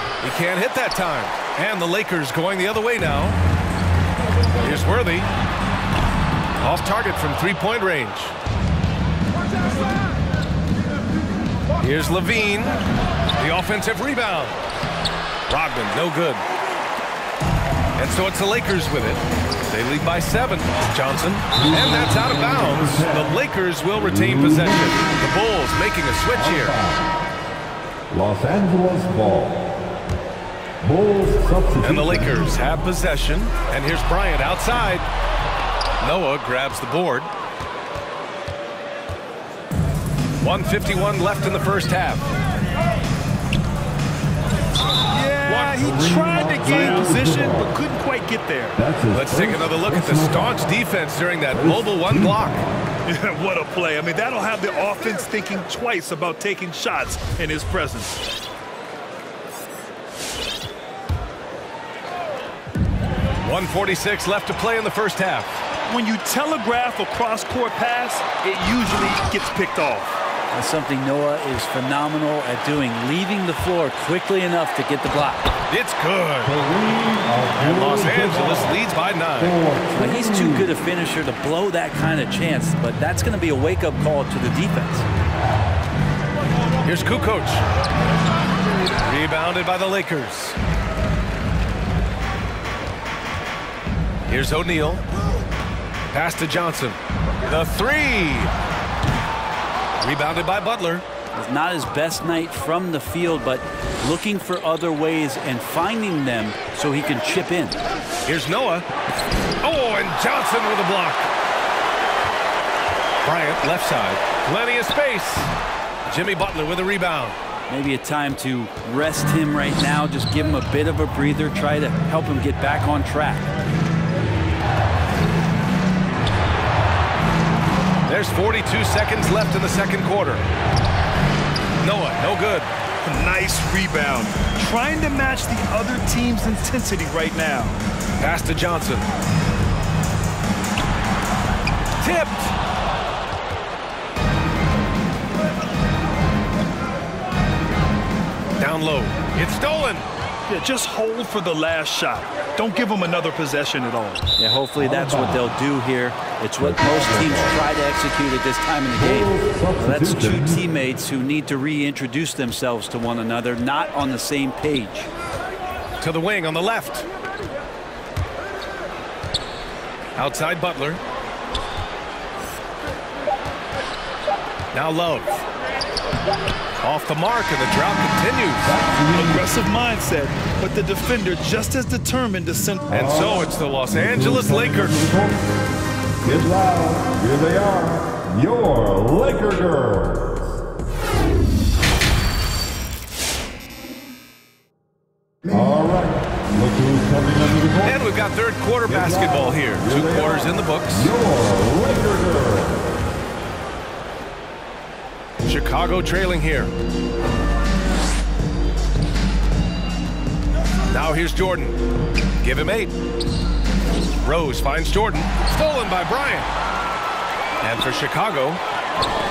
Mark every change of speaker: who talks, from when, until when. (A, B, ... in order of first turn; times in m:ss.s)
0:00.2-0:03.4 A
0:04.6-0:05.3 A
0:06.6-0:08.3 A
0:11.8-0:12.8 A
0:13.4-0:14.6 A
0:15.5-0:16.4 A
0:18.0-0:26.8 A
0:21.5-0:23.4 B
0:24.0-0:25.2 B
0:26.3-0:27.2 B
0:28.1-0:29.8 B
0:30.8-0:32.6 B
0:31.8-0:35.0 A
0:36.0-0:37.3 A
0:40.4-0:42.2 A
0:45.1-0:48.8 C
0:45.5-0:45.8 A
0:45.8-0:47.7 B
0:48.8-0:50.7 B
0:49.1-0:52.6 A
0:51.5-0:52.6 B
0:53.0-0:58.2 C
1:03.4-1:05.6 A
1:05.9-1:10.2 C
1:10.5-1:15.5 D
1:15.7-1:16.5 A
1:16.4-1:18.8 B
1:17.6-1:19.6 A
1:19.4-1:20.7 B
1:19.9-1:25.1 D
1:26.8-1:27.6 A
1:29.0-1:30.6 A
1:34.3-1:35.0 A
1:36.1-1:38.5 A
1:40.0-1:41.0 A
1:41.3-1:47.8 D
1:48.2-1:48.8 A
1:49.6-1:51.3 A
1:53.2-1:55.5 A
1:56.1-1:57.4 A
1:57.7-2:03.5 D
2:08.0-2:10.4 A
2:11.8-2:12.7 A
2:13.0-2:17.8 C
2:18.2-2:19.0 A
2:22.0-2:22.5 A
2:28.6-2:30.1 A
2:30.5-2:34.2 C
2:34.4-2:45.1 D
2:34.8-2:35.5 B
2:36.6-2:37.6 B
2:38.9-2:40.6 B
2:46.0-2:47.0 A
2:50.2-2:51.0 A
2:54.7-2:55.4 A
2:56.8-2:58.8 A
2:58.6-2:59.5 B
2:59.1-3:02.9 C
3:02.9-3:05.4 B
3:02.9-3:05.0 A
3:06.2-3:10.4 B
3:15.5-3:18.0 B
3:17.8-3:21.1 A
3:18.8-3:22.8 B
3:25.4-3:26.7 A
3:30.9-3:31.8 A
3:32.4-3:32.9 A
3:34.2-3:36.5 A
3:37.6-3:38.6 A